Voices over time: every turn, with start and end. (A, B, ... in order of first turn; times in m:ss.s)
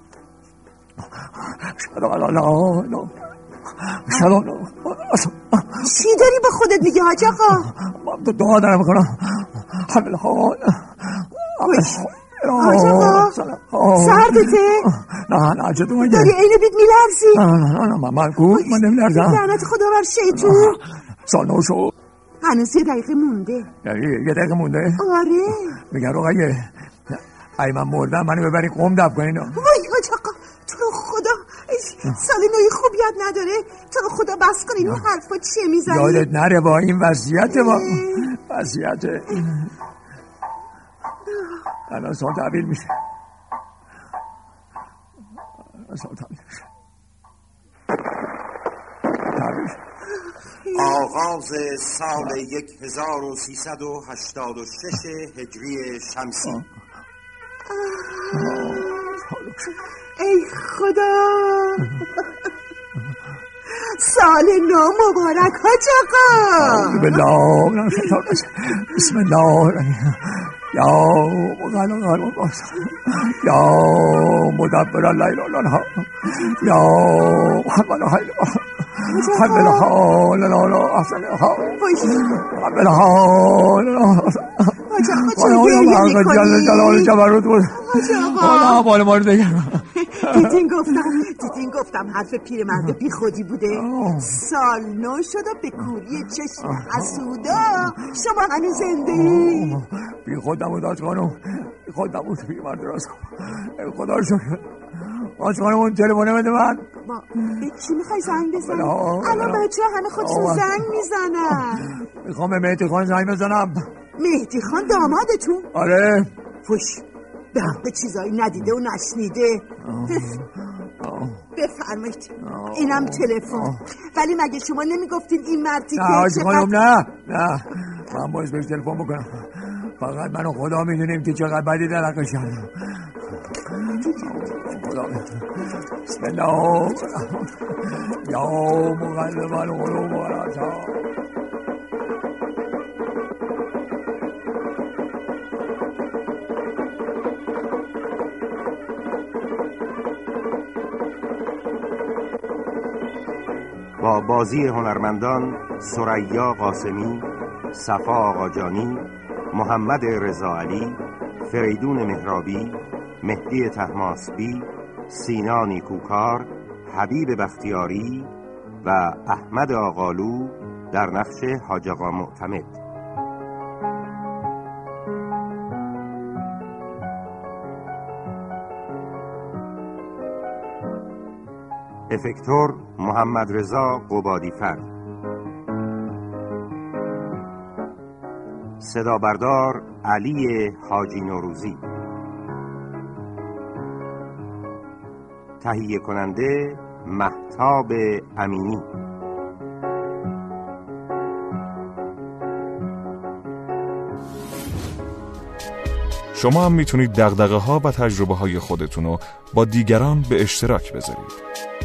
0:01.4-0:03.1 A
0:03.8-0:06.0 A
0:05.8-0:07.7 B
0:07.6-0:16.4 A
0:11.6-0:12.0 B
0:12.6-0:13.4 B
0:13.9-0:14.9 B
0:16.0-0:17.5 B
0:17.3-0:19.4 A
0:18.5-0:20.8 B
0:20.3-0:21.9 A
0:22.4-0:23.7 B
0:23.8-0:25.0 A
0:25.0-0:25.8 B
0:25.8-0:29.6 A
0:29.6-0:36.3 B
0:35.9-0:39.7 A
0:37.5-0:38.3 B
0:41.9-0:42.9 A
0:45.8-0:46.6 A
0:49.3-0:49.8 A
0:50.6-0:51.1 B
0:50.7-0:56.6 C
0:57.7-0:59.2 B
0:58.3-0:59.7 A
1:00.2-1:02.1 B
1:03.7-1:07.2 B
1:06.6-1:31.2 A
1:19.0-1:19.9 B
1:21.8-1:22.4 B
1:24.9-1:27.1 B
1:27.7-1:28.8 B
1:30.0-1:39.8 B
1:33.7-1:34.4 A
1:36.6-1:37.2 A
1:39.1-1:46.9 A
1:47.0-1:52.0 B
1:48.5-1:50.8 A
1:51.7-1:53.9 A
1:54.2-1:55.7 B
1:55.7-1:56.3 A
1:56.6-2:00.4 B
1:59.8-2:01.4 A
2:01.6-2:06.8 B
2:02.4-2:03.8 A
2:06.0-2:13.1 A
2:13.6-2:21.1 A
2:14.0-2:14.3 B
2:34.0-2:48.3 C
2:48.8-2:52.8 C
3:02.1-3:04.9 C
3:08.8-3:11.8 C
3:15.6-3:18.9 C
3:26.3-3:31.4 D